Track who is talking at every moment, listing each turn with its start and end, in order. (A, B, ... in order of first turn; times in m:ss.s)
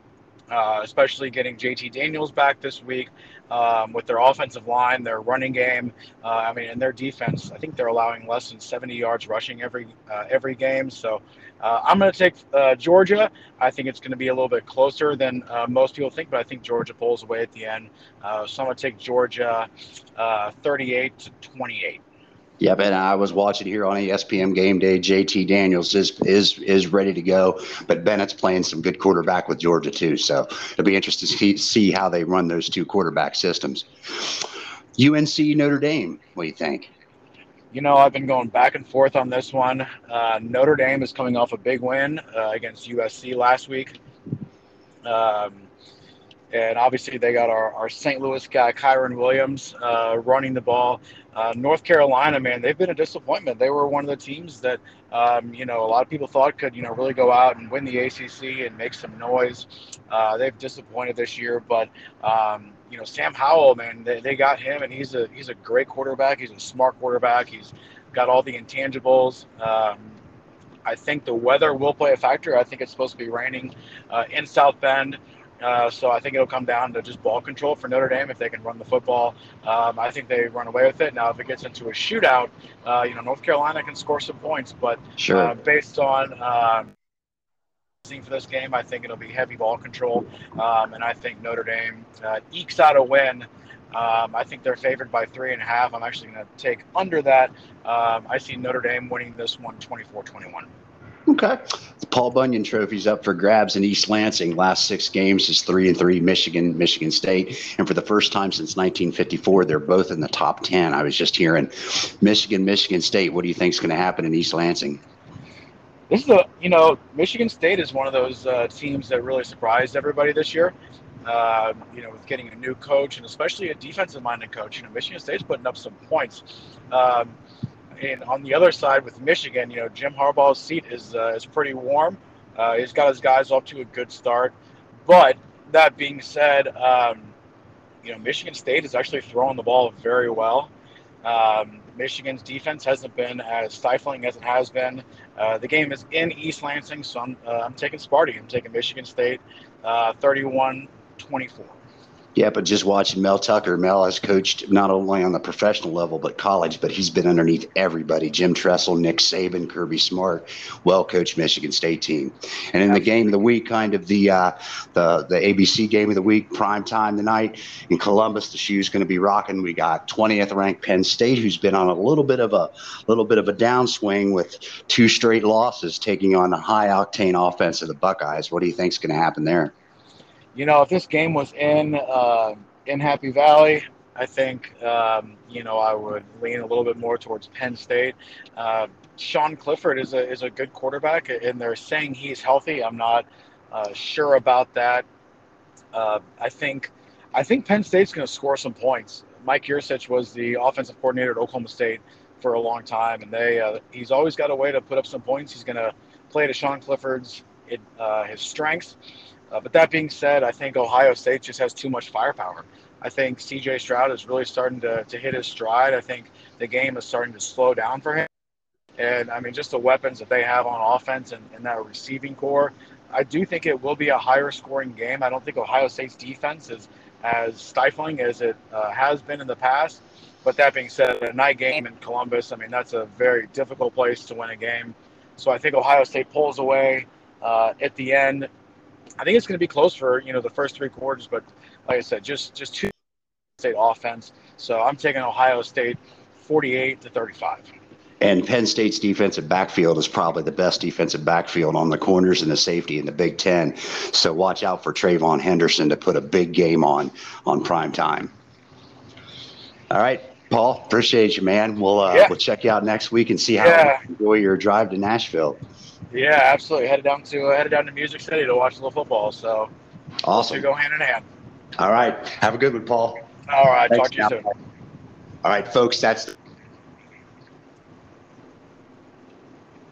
0:00.5-0:22.0 A
0:22.6-0:34.4 B
0:35.0-0:36.9 B
0:37.7-0:44.0 A
0:45.1-0:45.7 A
0:46.5-1:10.2 A
1:10.8-1:26.9 A
1:25.2-1:25.6 B
1:28.0-1:40.7 A
1:41.3-1:55.0 B
1:56.1-2:00.7 A
2:01.3-2:07.4 A
2:08.0-2:14.5 A
2:15.1-2:17.3 A
2:18.0-2:20.7 A
2:21.2-2:31.8 A
2:32.4-2:59.7 B
3:00.6-3:15.0 A
3:15.9-3:29.0 A
3:29.5-3:38.3 A
3:39.0-3:58.5 A
3:59.2-4:02.9 A
4:03.6-4:07.7 A
4:08.2-4:18.3 B
4:19.9-4:25.6 B
4:23.6-4:24.0 A
4:26.1-4:29.7 A
4:30.2-4:30.6 B
4:30.3-4:31.2 A
4:31.8-4:33.2 B
4:33.5-4:34.5 A
4:33.9-4:34.4 B
4:35.4-4:36.3 B